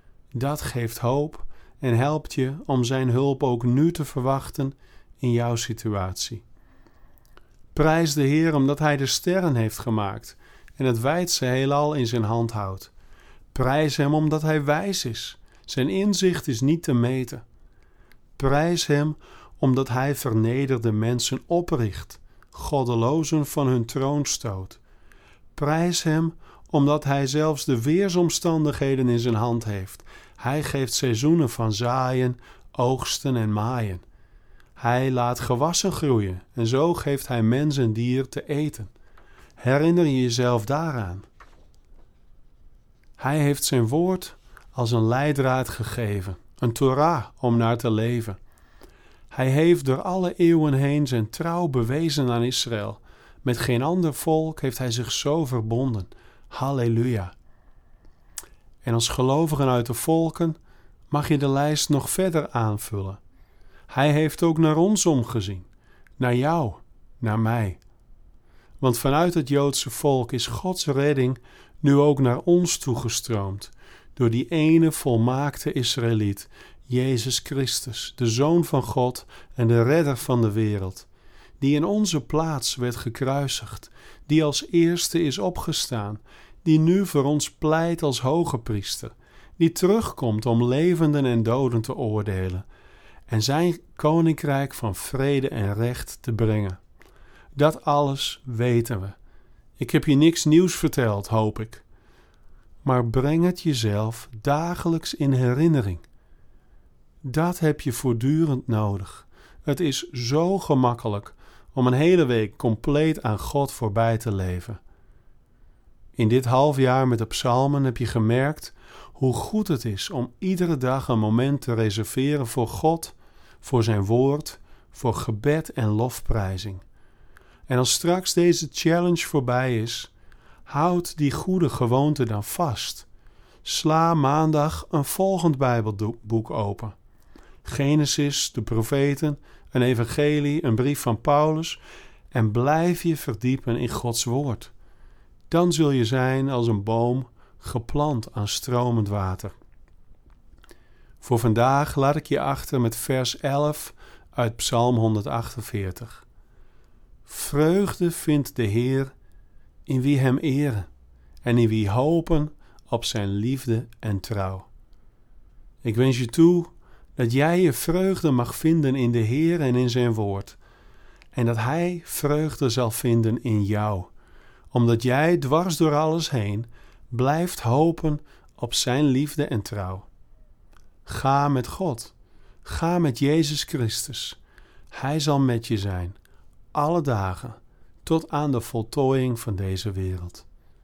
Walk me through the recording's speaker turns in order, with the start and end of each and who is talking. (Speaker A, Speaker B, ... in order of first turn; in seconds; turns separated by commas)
Speaker A: 0.3-6.4, Speaker A: 7.7-12.9, Speaker A: 13.5-17.4, Speaker A: 18.4-24.8, Speaker A: 25.6-34.0, Speaker A: 34.8-38.9, Speaker A: 39.6-41.3, Speaker A: 43.2-48.4, Speaker A: 49.3-57.3, Speaker A: 58.8-60.6, Speaker A: 61.1-63.2, Speaker A: 63.9-65.7, Speaker A: 66.2-67.8, Speaker A: 68.8-81.1, Speaker A: 81.6-92.7, Speaker A: 93.3-96.8, Speaker A: 97.5-99.2, Speaker A: 99.8-101.8, Speaker A: 102.8-106.0, Speaker A: 107.2-114.8, Speaker A: 116.2-126.8, Speaker A: 127.7-130.1, Speaker A: 130.7-133.1, Speaker A: 133.6-137.0, Speaker A: 137.6-144.7, Speaker A: 145.5-149.6, Speaker A: 151.2-156.2, Speaker A: 157.3-159.1, Speaker A: 159.9-160.9, Speaker A: 161.4-164.7, Speaker A: 165.8-170.6, Speaker A: 171.3-174.1, Speaker A: 174.7-180.1, Speaker A: 181.1-184.4, Speaker A: 184.9-186.2, Speaker A: 186.7-190.5